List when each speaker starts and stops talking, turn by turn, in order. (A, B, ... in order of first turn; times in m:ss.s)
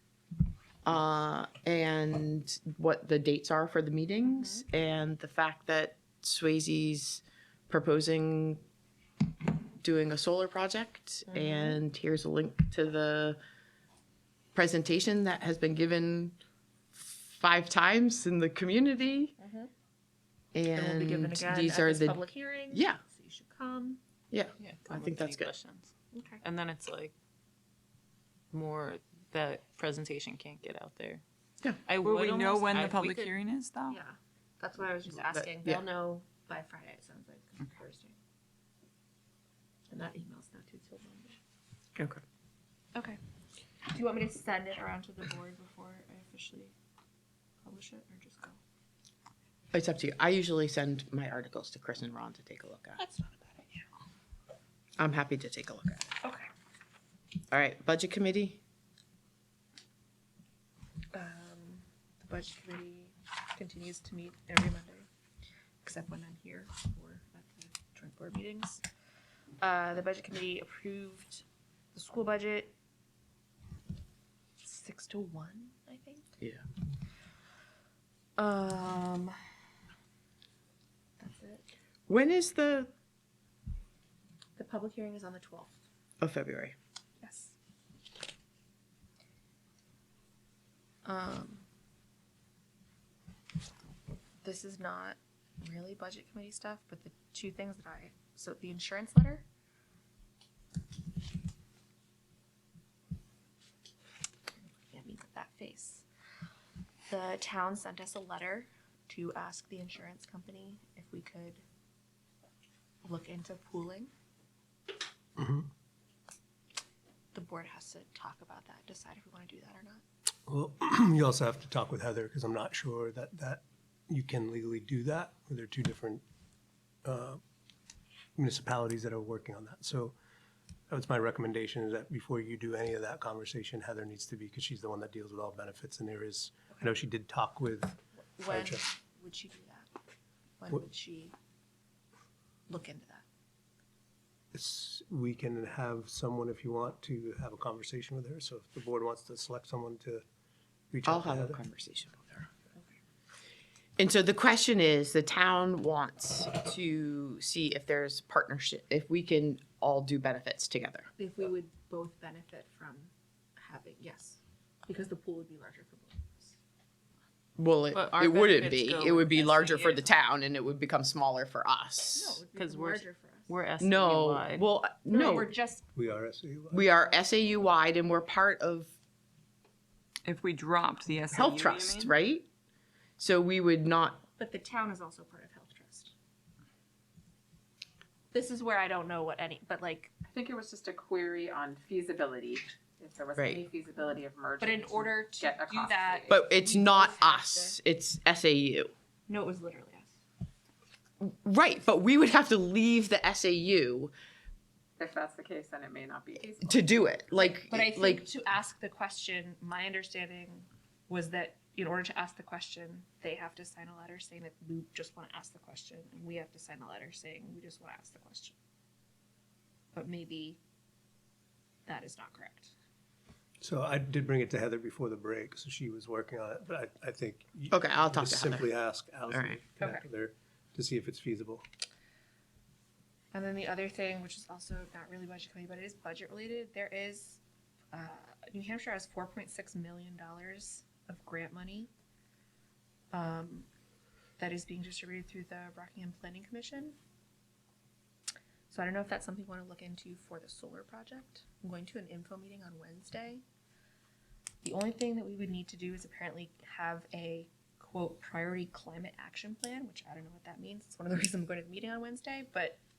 0:00.8-0:08.6 A
0:04.3-0:04.6 B
0:09.8-0:13.4 A
0:11.3-0:11.8 B
0:14.5-0:16.4 A
0:17.0-0:19.4 A
0:19.4-0:19.7 B
0:20.5-0:23.0 A
0:20.7-0:24.0 B
0:24.3-0:25.5 A
0:24.6-0:25.9 C
0:26.1-0:26.4 B
0:26.4-0:27.1 C
0:28.5-0:31.2 C
0:31.8-0:33.3 C
0:32.0-0:34.0 D
0:33.9-0:38.2 B
0:35.2-0:35.8 A
0:39.9-0:41.4 B
0:42.0-0:42.2 A
0:43.9-0:46.7 B
0:47.6-0:48.6 B
0:49.7-0:53.0 A
0:53.0-0:53.9 B
0:55.0-0:56.1 A
0:56.2-0:56.5 B
0:57.5-0:58.6 A
1:01.1-1:05.1 B
1:05.8-1:08.8 B
1:09.6-1:12.7 B
1:14.6-1:16.3 B
1:18.4-1:19.4 B
1:21.2-1:21.7 B
1:22.1-1:22.9 A
1:24.6-1:25.8 B
1:26.2-1:26.8 A
1:27.2-1:27.6 B
1:31.0-1:31.7 B
1:34.4-1:39.4 B
1:44.7-1:46.0 B
1:47.1-1:51.6 B
1:53.0-1:54.1 B
1:55.4-1:55.7 E
1:57.3-2:00.0 B
2:00.5-2:06.2 E
2:07.0-2:07.4 E
2:08.4-2:10.2 E
2:10.9-2:18.8 E
2:18.4-2:19.9 B
2:20.6-2:21.3 B
2:22.7-2:23.2 B
2:24.5-2:30.2 E
2:30.9-2:31.6 E
2:31.1-2:32.5 A
2:34.0-2:41.1 A
2:41.2-2:46.6 B
2:47.6-2:52.4 A
2:47.9-2:50.1 C
2:52.1-2:53.6 B
2:52.5-2:54.6 C
2:53.8-2:55.5 A
2:55.1-2:55.9 B
2:56.0-2:56.9 E
2:56.7-2:58.9 A
3:00.2-3:02.1 D
3:01.3-3:02.5 A
3:03.2-3:04.2 A
3:04.4-3:06.1 B
3:08.3-3:10.2 B
3:10.2-3:16.5 F
3:13.4-3:13.6 A
3:14.6-3:17.8 B
3:16.3-3:18.9 A
3:19.3-3:20.1 B
3:21.2-3:24.1 A
3:25.0-3:27.0 F
3:26.6-3:28.3 A
3:27.3-3:38.5 B
3:40.0-3:40.6 B
3:41.9-3:42.7 B
3:43.6-3:51.6 E
3:47.7-3:48.7 A
3:49.3-3:49.6 A
3:49.8-3:50.0 B
3:53.3-3:57.4 B
3:57.9-4:01.9 B
4:03.1-4:03.7 B
4:04.4-4:07.0 B
4:08.7-4:13.4 B
4:14.6-4:22.8 B